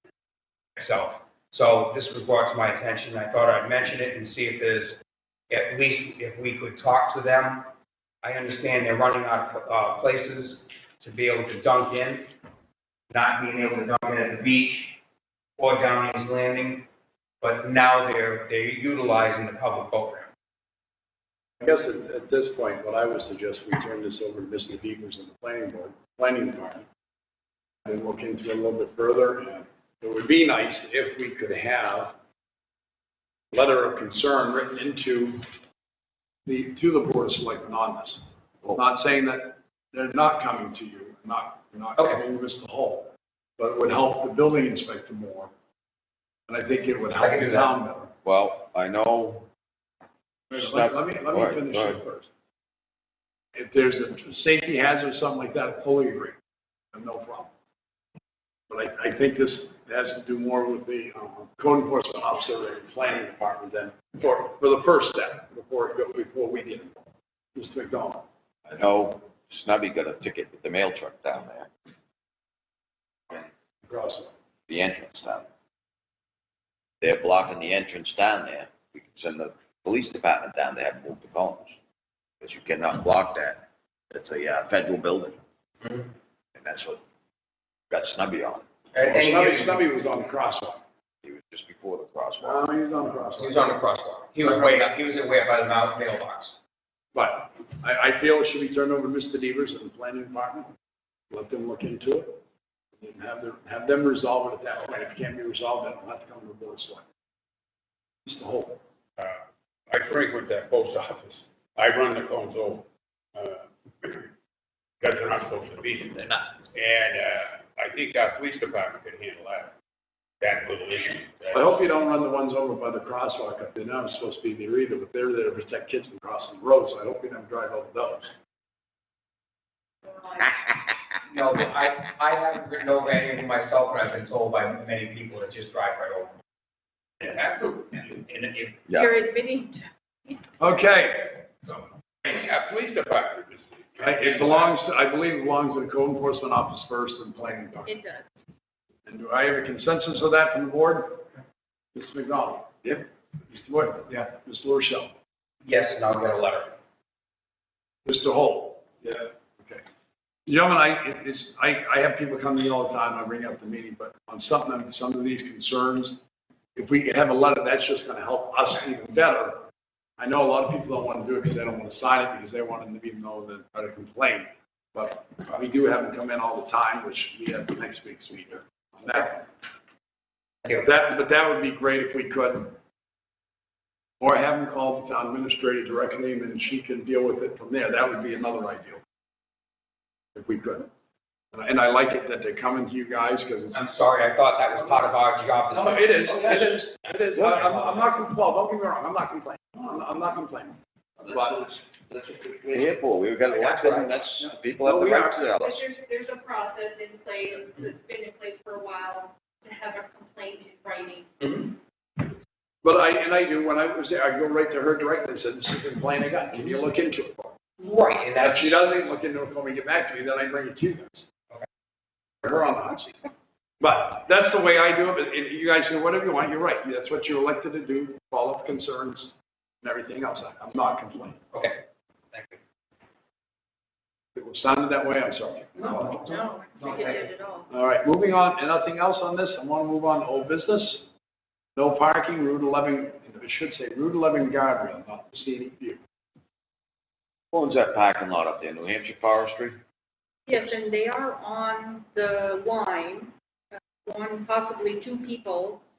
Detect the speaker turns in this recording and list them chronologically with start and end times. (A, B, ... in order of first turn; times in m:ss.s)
0:00.8-0:04.9 A
0:05.5-0:12.3 A
0:13.1-0:15.0 A
0:15.6-0:16.9 A
0:17.4-0:20.3 A
0:21.6-0:26.8 B
0:27.9-0:32.1 B
0:33.5-0:35.4 B
0:36.5-0:45.5 B
0:46.5-0:48.1 B
0:47.2-0:47.7 A
0:48.2-0:49.5 C
0:50.5-0:52.0 C
0:50.5-0:52.3 B
0:53.6-0:56.4 B
0:56.9-0:57.5 B
0:58.7-1:08.2 B
1:08.7-1:11.7 C
1:13.3-1:14.3 B
1:14.7-1:15.5 C
1:17.0-1:21.7 C
1:22.4-1:25.4 C
1:26.6-1:27.0 C
1:27.9-1:28.7 C
1:28.9-1:29.8 A
1:29.0-1:30.8 B
1:31.2-1:32.6 C
1:32.4-1:33.8 B
1:33.4-1:36.5 A
1:34.4-1:34.8 B
1:37.1-1:40.7 B
1:41.3-1:42.4 B
1:43.0-1:47.0 B
1:48.2-1:48.8 B
1:49.2-1:52.8 D
1:53.4-1:54.3 D
1:55.0-1:59.7 D
2:00.4-2:01.8 D
2:01.5-2:08.3 B
2:10.0-2:10.7 E
2:11.3-2:16.3 A
2:17.2-2:18.8 A
2:18.9-2:20.5 E
2:20.6-2:21.5 B
2:22.2-2:24.8 D
2:24.0-2:27.9 B
2:27.9-2:28.2 E
2:29.1-2:31.3 B
2:32.0-2:35.1 B
2:35.6-2:36.8 A
2:38.0-2:39.8 B
2:40.5-2:46.2 B
2:46.8-2:49.6 B
2:50.2-2:59.5 B
3:00.7-3:02.8 B
3:04.2-3:09.0 B
3:10.4-3:10.9 B
3:11.5-3:13.8 B
3:13.7-3:16.8 A
3:15.7-3:20.8 B
3:21.3-3:21.7 B
3:22.1-3:25.8 C
3:23.5-3:24.1 A
3:24.8-3:25.3 B
3:25.2-3:31.7 E
3:32.8-3:37.6 B
3:37.8-3:38.8 A
3:38.4-3:41.2 B
3:42.4-3:49.3 B
3:49.8-3:51.4 B
3:51.5-3:52.6 A
3:54.4-3:56.2 B
3:55.8-3:57.2 A
3:56.0-3:57.7 E
3:57.7-4:01.1 B
4:01.8-4:06.0 B
4:07.5-4:09.8 C
4:10.5-4:15.8 E